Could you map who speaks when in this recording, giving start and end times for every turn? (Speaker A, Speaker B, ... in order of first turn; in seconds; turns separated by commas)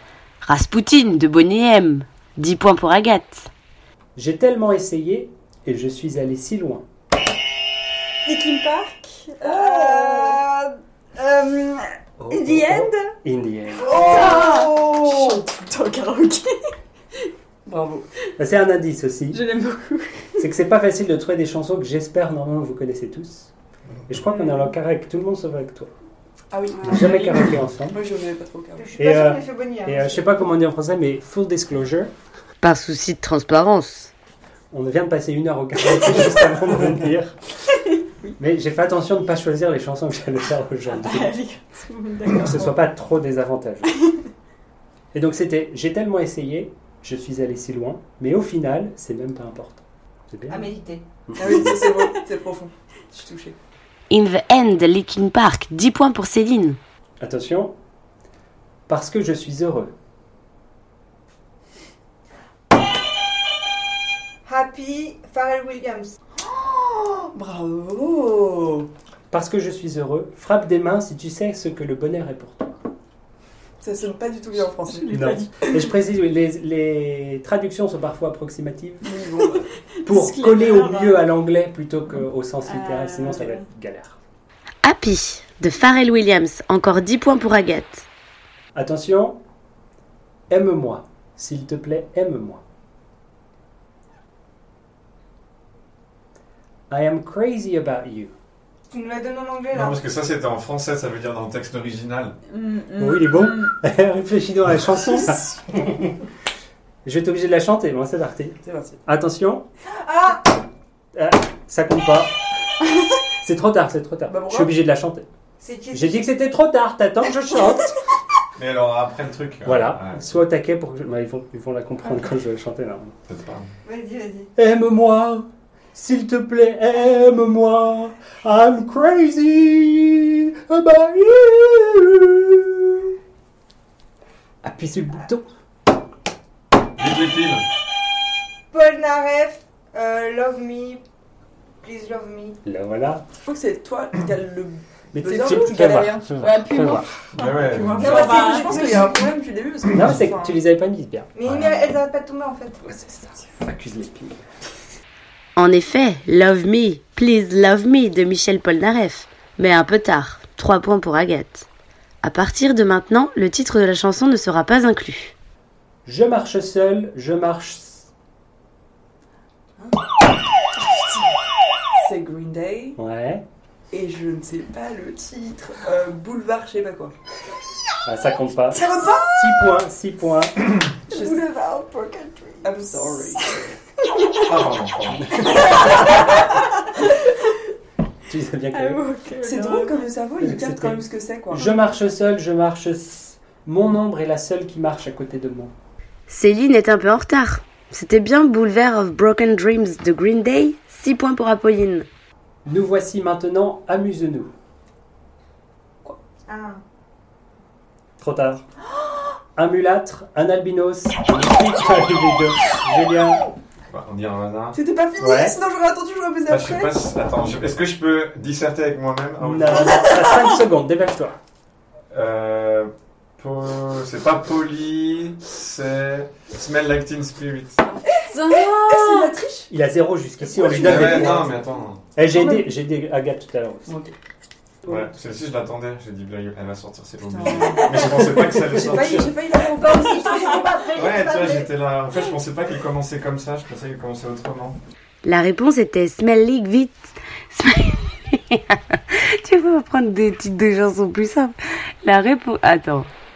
Speaker A: 0.4-3.5, Speaker B: 4.2-6.9, Speaker C: 8.2-10.2, Speaker D: 9.4-10.4, Speaker E: 9.4-11.8, Speaker B: 12.2-13.9, Speaker C: 12.3-13.1, Speaker D: 13.8-15.4, Speaker C: 13.9-16.7, Speaker E: 13.9-15.2, Speaker D: 17.7-18.1, Speaker B: 18.4-19.5, Speaker C: 19.3-20.4, Speaker B: 20.4-23.5, Speaker B: 24.1-25.9, Speaker C: 24.4-24.7, Speaker D: 26.5-29.0, Speaker B: 26.8-28.0, Speaker C: 26.9-27.3, Speaker E: 28.8-30.2, Speaker B: 29.0-32.1, Speaker A: 32.6-34.1, Speaker B: 34.7-37.4, Speaker B: 38.4-41.4, Speaker C: 40.9-42.8, Speaker B: 42.3-44.0, Speaker B: 45.1-50.7, Speaker E: 50.5-51.0, Speaker B: 51.3-51.8, Speaker D: 51.4-53.6, Speaker A: 54.1-56.8, Speaker B: 57.2-57.8, Speaker B: 58.9-59.9, Speaker E: 64.5-66.2, Speaker D: 66.4-68.9, Speaker B: 69.3-72.8, Speaker D: 73.8-75.2, Speaker C: 74.9-75.8, Speaker B: 75.1-79.2, Speaker D: 79.0-79.7, Speaker C: 80.0-81.3, Speaker B: 80.0-84.2, Speaker C: 82.7-83.6, Speaker A: 84.8-88.1, Speaker B: 88.8-89.4, Speaker B: 90.5-92.6, Speaker B: 96.9-98.3, Speaker E: 98.9-100.0, Speaker F: 99.7-102.4, Speaker C: 102.5-103.7, Speaker B: 103.0-106.2, Speaker B: 107.0-109.7, Speaker D: 108.6-109.0, Speaker E: 109.9-110.5, Speaker B: 111.1-112.3, Speaker B: 113.4-115.3, Speaker D: 114.3-114.8, Speaker E: 115.6-116.2, Speaker B: 115.9-117.9, Speaker F: 118.6-120.3, Speaker B: 119.7-123.2, Speaker F: 123.3-123.7, Speaker E: 123.8-124.5, Speaker B: 124.6-133.1, Speaker B: 134.6-135.5, Speaker F: 137.0-137.6, Speaker E: 138.7-141.0, Speaker E: 141.8-142.6, Speaker B: 142.7-143.2, Speaker D: 143.4-146.5, Speaker B: 145.1-147.1, Speaker C: 146.4-149.2, Speaker F: 147.3-148.3, Speaker D: 147.7-150.6, Speaker E: 148.0-149.2, Speaker B: 149.9-151.3, Speaker E: 151.3-152.8, Speaker F: 151.5-151.7, Speaker B: 152.8-154.4, Speaker A: 155.6-161.7, Speaker A: 162.2-165.3, Speaker B: 166.1-168.1, Speaker D: 172.0-173.0, Speaker B: 173.0-173.4, Speaker D: 173.9-177.2, Speaker B: 178.1-180.6, Speaker D: 178.7-179.7, Speaker D: 181.1-181.6, Speaker C: 181.1-182.9, Speaker D: 182.6-183.6, Speaker F: 184.4-185.8, Speaker C: 185.4-186.5, Speaker B: 188.3-189.0, Speaker C: 188.7-190.1, Speaker D: 189.4-191.8, Speaker B: 190.4-195.7, Speaker A: 196.3-202.1, Speaker B: 202.7-204.5, Speaker E: 206.5-206.8, Speaker B: 208.2-208.7, Speaker B: 209.6-213.4, Speaker F: 213.9-214.8, Speaker D: 214.7-217.1, Speaker B: 215.2-215.6, Speaker F: 216.5-220.1, Speaker B: 219.4-221.4, Speaker F: 222.1-227.8, Speaker C: 227.9-229.4, Speaker D: 228.1-229.7, Speaker B: 229.7-231.6, Speaker D: 230.4-231.7, Speaker F: 230.7-232.1, Speaker B: 232.2-234.0, Speaker D: 232.3-232.7, Speaker D: 233.9-234.1, Speaker F: 234.9-239.4, Speaker D: 237.2-240.5, Speaker B: 238.1-239.2, Speaker E: 239.6-241.7, Speaker F: 240.9-244.8, Speaker A: 245.2-253.1